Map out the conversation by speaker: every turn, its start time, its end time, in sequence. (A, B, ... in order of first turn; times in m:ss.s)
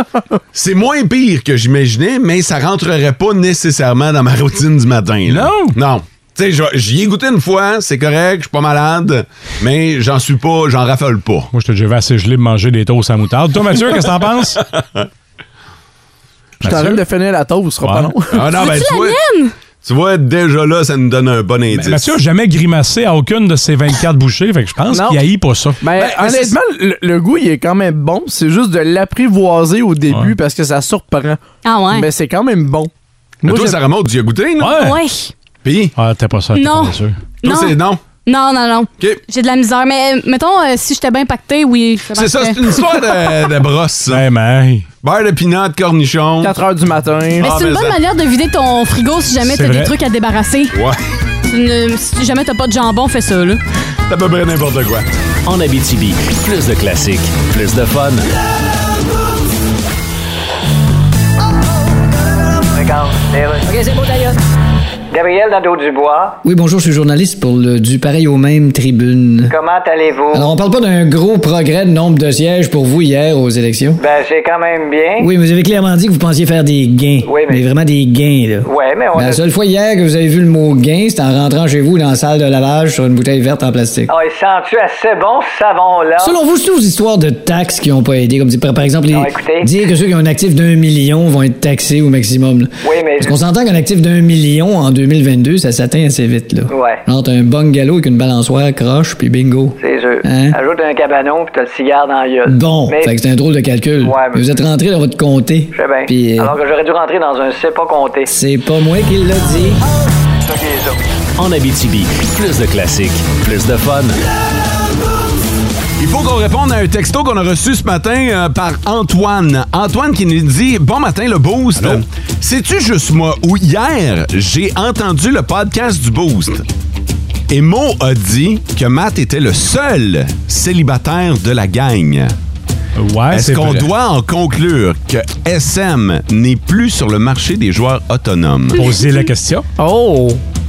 0:00.5-0:11.5 A
0:05.3-0:05.8 B
0:11.5-0:14.6 B
0:14.8-0:15.1 A
0:16.6-0:18.4 C
0:16.6-0:17.0 B
0:17.8-0:18.1 B
0:18.3-0:19.2 A
0:18.5-0:19.5 D
0:19.8-0:22.2 A
0:21.7-0:25.8 B
0:24.9-0:25.3 C
0:25.8-0:32.9 C
0:25.9-0:26.6 A
0:30.1-0:30.3 B
0:31.6-0:32.1 D
0:33.4-0:33.8 C
0:33.4-0:34.8 A
0:34.6-0:35.0 B
0:34.7-0:35.3 D
0:35.6-0:36.0 A
0:36.0-0:37.2 B
0:36.5-0:42.9 D
0:37.4-0:38.0 A
0:42.1-0:44.2 A
0:44.1-0:44.9 B
0:45.0-0:46.6 A
0:46.4-0:47.5 C
0:47.4-0:48.0 A
0:47.4-0:50.8 D
0:49.4-0:49.9 B
0:51.5-0:53.6 D
0:54.1-0:55.1 A
0:55.4-0:58.3 E
1:02.7-1:03.7 F
1:05.1-1:06.4 F
1:06.4-1:09.6 G
1:09.5-1:10.5 F
1:10.3-1:14.0 G
1:14.0-1:15.3 F
1:15.2-1:24.1 G
1:17.2-1:17.6 F
1:18.6-1:19.4 F
1:24.1-1:26.4 F
1:26.2-1:40.6 G
1:29.1-1:29.7 F
1:32.8-1:33.4 F
1:36.7-1:37.0 F
1:39.8-1:43.2 F
1:42.5-1:46.6 G
1:44.0-1:44.5 F
1:45.7-1:48.3 F
1:48.3-1:49.8 G
1:50.5-1:50.9 F
1:51.4-1:54.2 E
1:56.0-2:06.6 A
2:07.5-2:12.4 A
2:13.0-2:13.9 B
2:13.3-2:18.8 A
2:18.8-2:19.6 B
2:19.8-2:20.4 C